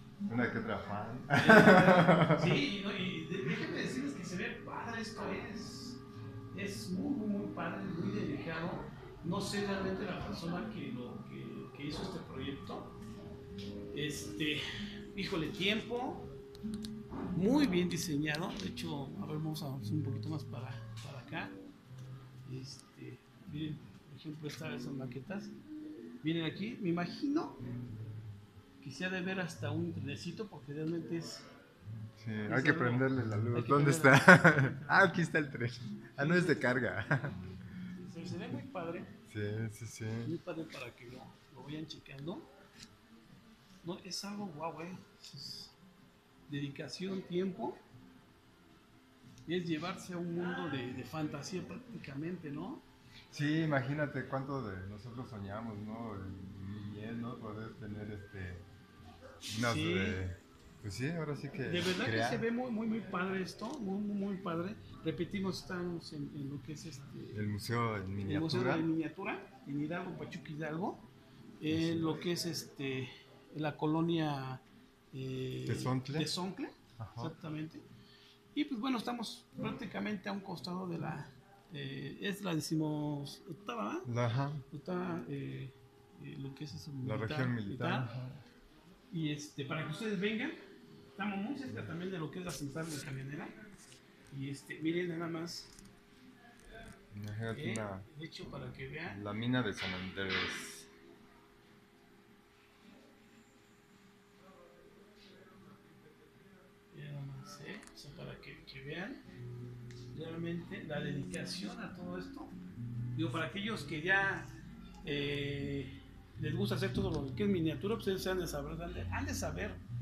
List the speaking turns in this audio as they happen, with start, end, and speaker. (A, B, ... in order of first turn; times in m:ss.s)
0:00.3-0:02.6 A
0:01.3-0:06.0 B
0:06.5-0:12.9 B
0:13.9-0:16.3 B
0:17.3-0:21.6 B
0:22.4-0:25.5 B
0:26.2-0:27.6 B
0:28.8-0:31.5 B
0:32.2-0:37.4 A
0:32.5-0:35.2 B
0:36.2-0:37.0 B
0:37.9-0:39.1 B
0:39.3-0:40.3 A
0:40.2-0:42.5 B
0:43.8-0:45.7 B
0:46.5-0:47.8 B
0:49.4-0:52.8 B
0:53.3-0:58.6 A
0:59.5-1:02.4 A
0:59.6-1:00.2 B
1:01.5-1:07.5 B
1:07.3-1:08.9 A
1:08.2-1:11.0 B
1:11.6-1:17.8 B
1:11.7-1:12.3 A
1:15.6-1:16.3 A
1:17.0-1:17.3 A
1:18.5-1:24.1 B
1:24.0-1:24.6 A
1:24.7-1:28.1 B
1:27.0-1:28.4 A
1:29.1-1:30.6 B
1:31.1-1:33.5 B
1:34.3-1:35.8 B
1:37.1-1:38.0 A
1:37.5-1:39.2 B
1:39.0-1:40.9 A
1:46.9-1:49.2 B
1:50.1-1:52.5 B
1:53.1-1:54.5 B
1:55.0-1:59.8 B